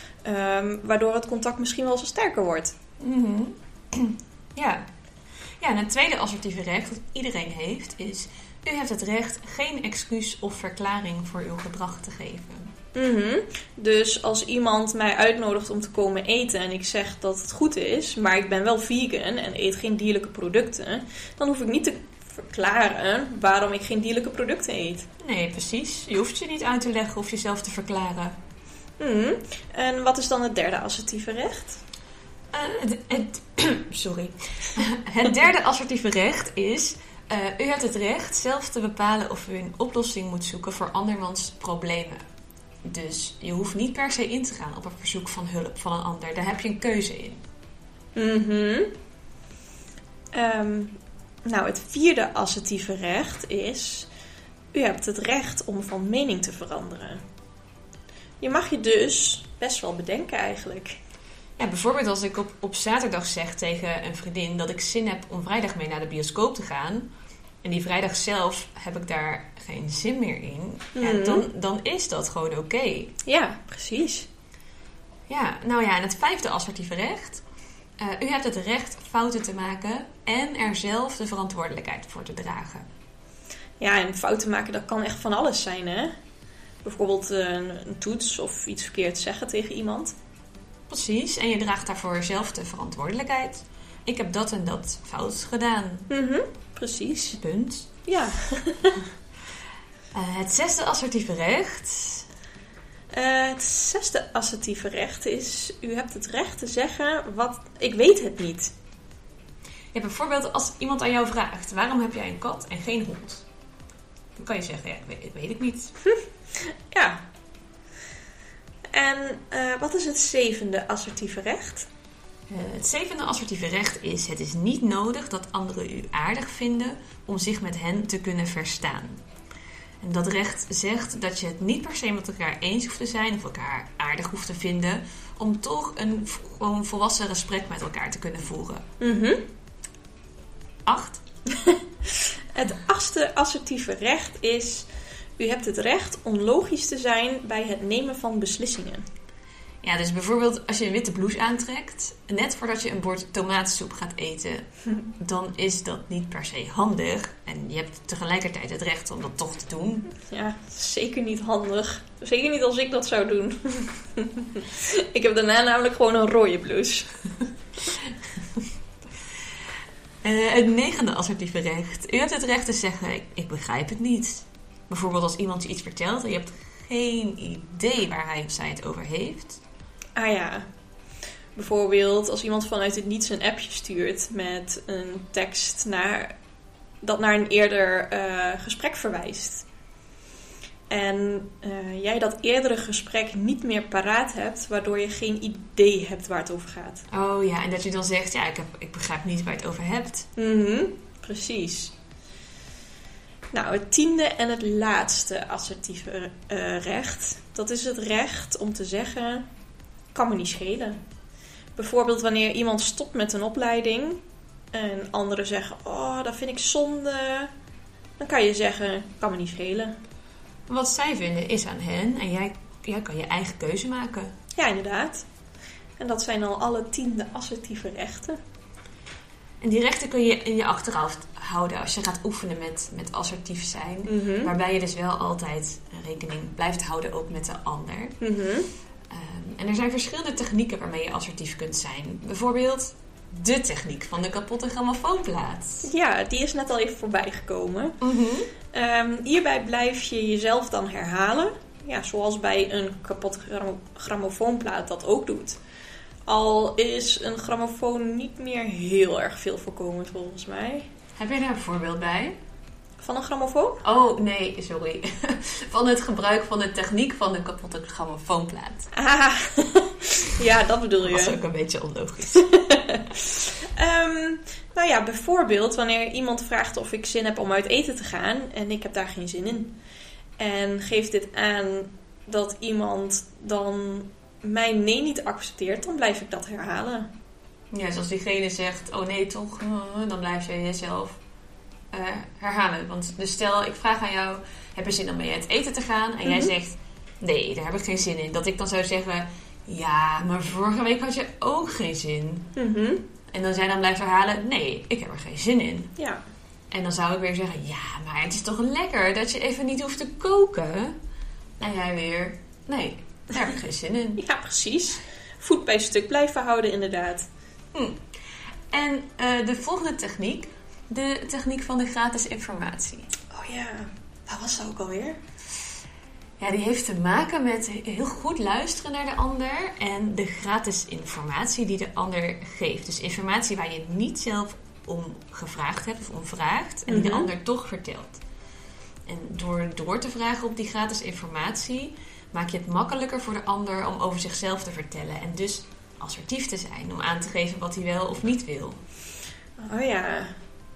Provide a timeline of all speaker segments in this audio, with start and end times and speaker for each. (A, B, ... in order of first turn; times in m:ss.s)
0:00.2-0:02.7 A
0:03.0-0:04.8 B
0:05.6-0:12.7 B
0:12.9-0:25.1 A
0:25.2-0:28.4 B
0:29.0-0:31.8 A
0:32.5-0:42.2 B
0:42.8-0:47.4 B
0:48.2-0:48.9 A
0:50.3-0:54.1 A
0:54.7-0:57.2 A
0:58.4-1:01.0 A
1:01.6-1:07.1 B
1:07.6-1:13.1 B
1:10.9-1:11.4 A
1:13.2-1:14.3 A
1:15.3-1:17.4 B
1:18.0-1:22.9 B
1:23.8-1:26.1 A
1:26.8-1:30.1 A
1:30.9-1:36.1 B
1:36.1-1:37.4 A
1:37.4-1:38.0 B
1:38.0-1:39.0 A
1:40.1-1:42.2 B
1:43.1-1:48.7 A
1:49.9-1:53.4 B
1:54.4-1:55.9 B
1:56.6-1:57.2 A
1:58.9-2:01.9 A
2:02.5-2:09.2 B
2:10.0-2:18.8 B
2:19.0-2:19.5 A
2:20.8-2:21.2 B
2:21.5-2:24.9 A
2:25.4-2:29.0 A
2:29.8-2:40.1 B
2:40.2-2:47.1 A
2:47.9-2:48.6 B
2:50.2-2:59.6 B
3:00.2-3:00.6 A
3:01.5-3:06.3 A
3:07.0-3:09.6 A
3:10.9-3:17.0 A
3:17.1-3:20.3 B
3:20.4-3:21.9 A
3:23.5-3:29.5 A
3:30.1-3:31.0 A
3:31.8-3:34.2 A
3:34.7-3:37.5 A
3:38.2-3:40.0 A
3:40.7-3:44.3 B
3:44.6-3:45.2 A
3:46.0-3:48.4 A
3:49.6-3:58.2 B
3:54.1-3:54.5 A
3:58.2-3:58.7 A
3:59.1-4:05.9 B
4:05.8-4:08.0 A
4:08.0-4:08.5 B
4:08.7-4:15.6 A
4:16.3-4:20.9 A
4:21.2-4:22.4 B
4:23.0-4:23.8 A
4:23.8-4:28.9 B
4:28.9-4:31.4 A
4:31.0-4:32.5 B
4:32.4-4:39.7 A
4:40.4-4:47.1 A
4:47.7-4:51.2 B
4:51.9-5:02.5 B
4:56.2-4:56.5 A
5:02.6-5:03.0 A
5:03.3-5:05.9 B
5:06.7-5:11.0 B
5:11.6-5:14.2 B
5:14.2-5:17.3 A
5:17.7-5:18.0 B
5:18.7-5:23.1 B
5:23.3-5:25.2 A
5:26.4-5:38.2 B
5:36.9-5:37.3 A
5:39.0-5:48.8 B
5:49.6-5:50.4 A